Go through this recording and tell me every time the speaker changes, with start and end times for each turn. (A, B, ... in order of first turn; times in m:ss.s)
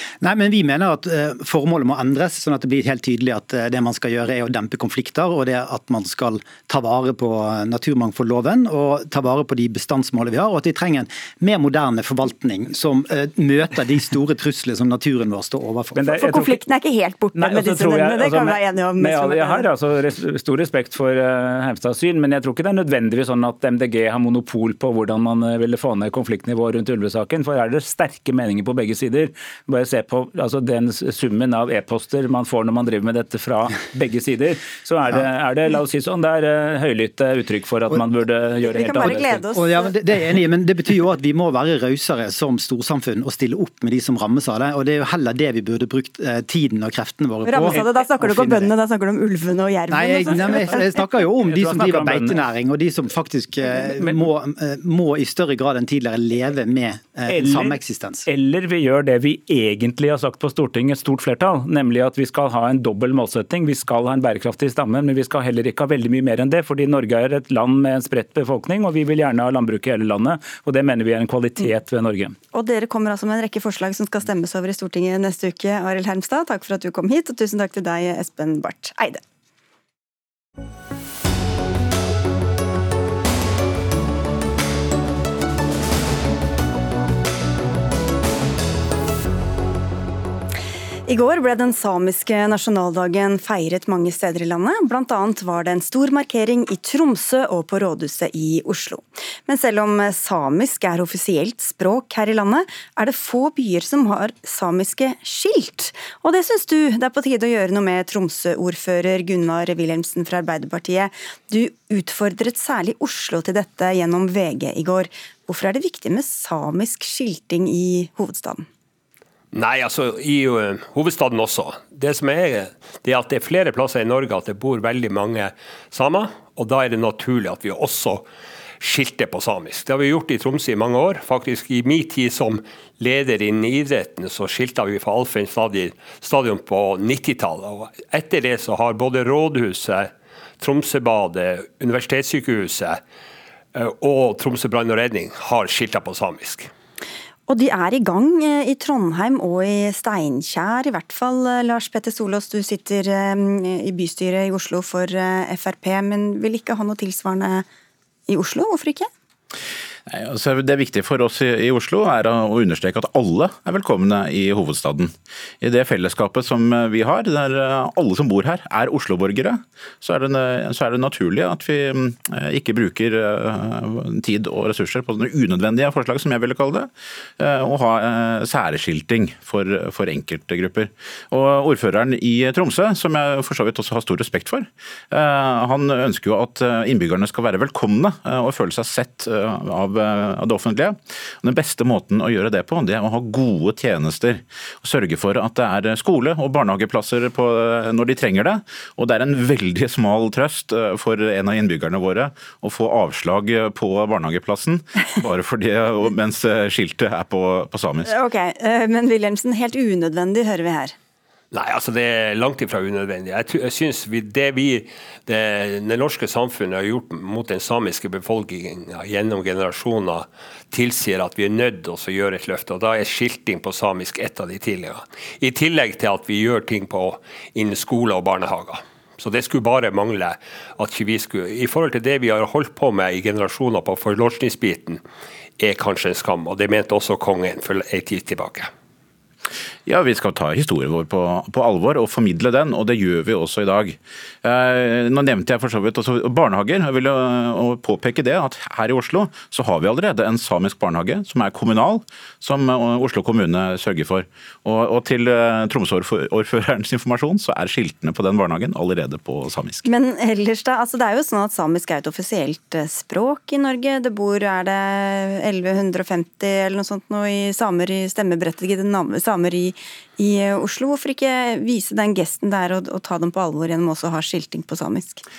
0:00.2-0:16.1 A
0:15.9-0:16.6 B
0:16.0-0:19.7 C
0:17.4-0:39.4 B
0:38.6-0:48.7 A
0:38.6-0:39.9 C
0:47.4-0:51.0 C
0:49.9-0:58.2 A
0:51.5-0:52.4 B
0:57.3-1:12.4 B
1:12.5-1:19.2 C
1:31.0-1:58.7 C
1:59.5-2:08.2 D
2:08.8-2:23.0 D
2:23.7-2:26.7 D
2:27.5-2:37.6 C
2:38.3-2:39.1 C
2:40.1-3:28.1 E
3:28.0-3:30.9 C
3:31.5-3:55.0 D
3:55.6-3:58.7 D
3:59.8-4:19.8 E
4:19.8-4:35.2 C